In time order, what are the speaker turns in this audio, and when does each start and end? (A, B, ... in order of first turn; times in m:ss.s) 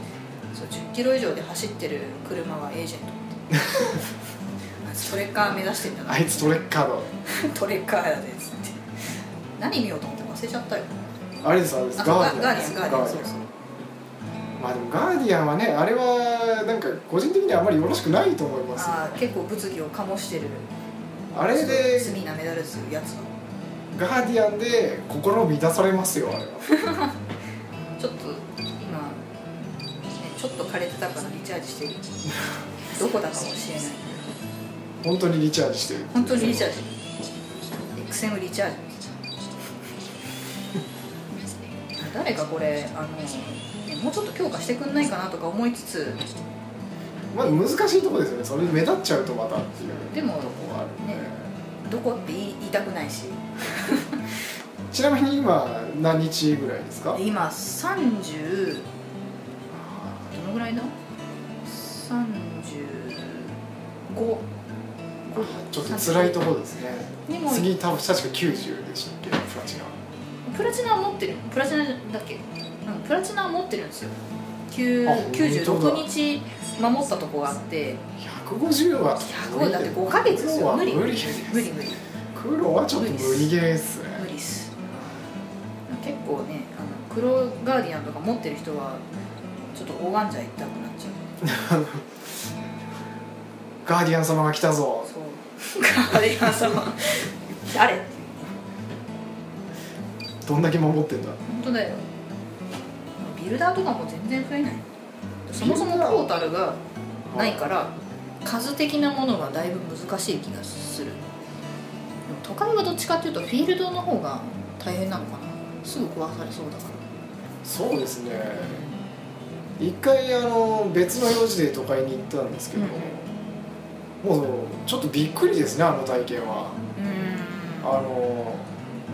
0:00.5-0:04.1 A
0:04.8-0:06.7 A
0:06.0-0:07.1 B
0:07.2-0:08.8 A
0:09.6-0:10.9 A
0:11.4-0:13.3 B
0:12.0-0:13.5 A
0:14.6-0:19.2 B
0:18.8-0:20.7 A
0:21.3-0:22.2 B
0:21.4-0:23.3 A
0:23.9-0:26.8 B
0:26.7-0:27.1 A
0:28.0-0:29.2 A
0:30.1-0:32.2 A
0:32.9-0:34.3 A
0:35.0-0:36.7 B
0:36.1-0:36.9 A
0:37.9-0:39.0 A
0:41.9-0:46.2 A
0:47.3-0:51.5 B
0:50.1-0:51.3 A
0:51.8-0:54.2 A
0:54.9-0:57.2 B
0:57.1-0:58.9 A
0:59.7-1:00.3 B
1:00.3-1:00.9 A
1:01.6-1:03.6 A
1:04.1-1:04.5 A
1:05.3-1:06.4 A
1:05.4-1:10.0 B
1:07.3-1:07.7 A
1:10.5-1:14.2 A
1:14.7-1:18.0 A
1:15.0-1:16.1 B
1:18.2-1:21.7 B
1:19.2-1:22.0 A
1:22.3-1:24.3 B
1:23.0-1:23.5 A
1:24.2-1:25.1 A
1:25.9-1:29.0 A
1:29.7-1:31.4 A
1:31.4-1:32.0 B
1:33.8-1:35.1 B
1:35.1-1:38.6 A
1:40.4-1:41.4 B
1:41.5-1:42.0 A
1:43.2-1:44.8 A
1:45.5-1:46.8 A
1:45.6-1:46.3 B
1:47.3-1:47.7 B
1:47.3-1:51.2 A
1:52.3-1:57.0 A
1:57.6-1:58.9 B
1:58.6-1:59.0 A
1:59.8-2:03.3 B
2:02.7-2:03.1 A
2:04.2-2:06.8 B
2:07.0-2:08.0 A
2:07.8-2:08.7 B